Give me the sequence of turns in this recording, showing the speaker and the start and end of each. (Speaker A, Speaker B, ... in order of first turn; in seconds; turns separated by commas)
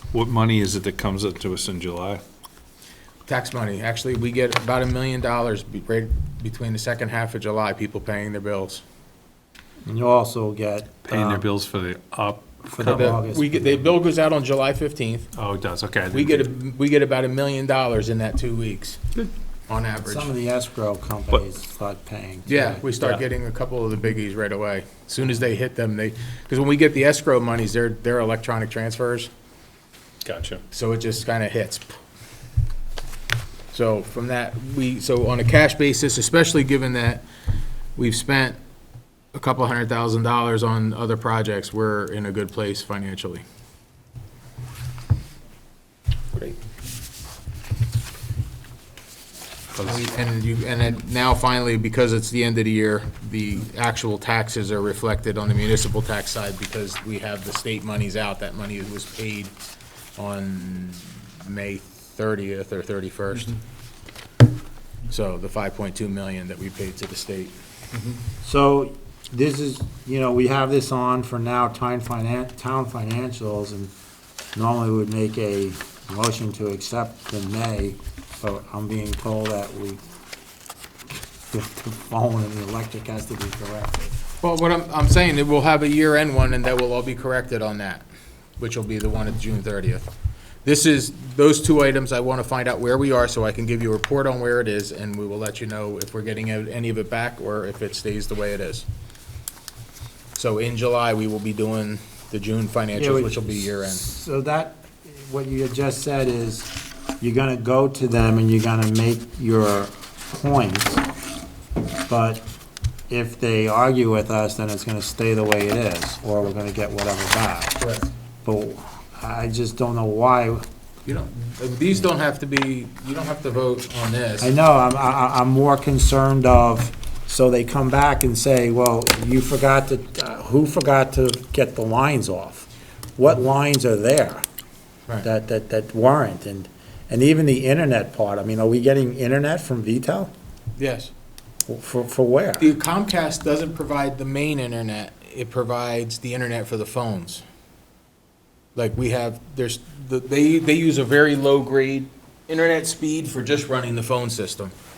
Speaker A: 0.1-2.2, Speaker B: 3.3-8.8, Speaker C: 9.8-11.4, Speaker A: 11.0-13.2, Speaker C: 12.7-13.5, Speaker B: 12.8-15.3, Speaker A: 15.3-16.5, Speaker B: 16.1-19.0, Speaker B: 19.7-20.3, Speaker C: 20.1-22.8, Speaker B: 22.5-29.3, Speaker A: 30.2-30.6, Speaker B: 30.7-32.0, Speaker B: 33.7-37.2, Speaker B: 38.0-38.6, Speaker B: 39.3-43.4, Speaker B: 49.8-59.5, Speaker B: 60.1-63.5, Speaker B: 65.1-67.5, Speaker C: 68.4-73.9, Speaker C: 74.5-80.0, Speaker C: 81.5-84.2, Speaker B: 84.4-88.0, Speaker B: 88.6-90.1, Speaker B: 90.6-98.8, Speaker B: 100.3-104.0, Speaker C: 102.9-111.0, Speaker C: 112.1-112.4, Speaker C: 113.1-117.8, Speaker B: 117.8-118.1, Speaker C: 118.4-120.6, Speaker B: 121.0-124.5, Speaker C: 124.4-134.4, Speaker C: 135.2-140.3, Speaker B: 140.8-141.1, Speaker C: 141.7-142.7, Speaker B: 142.6-147.4, Speaker B: 148.8-154.7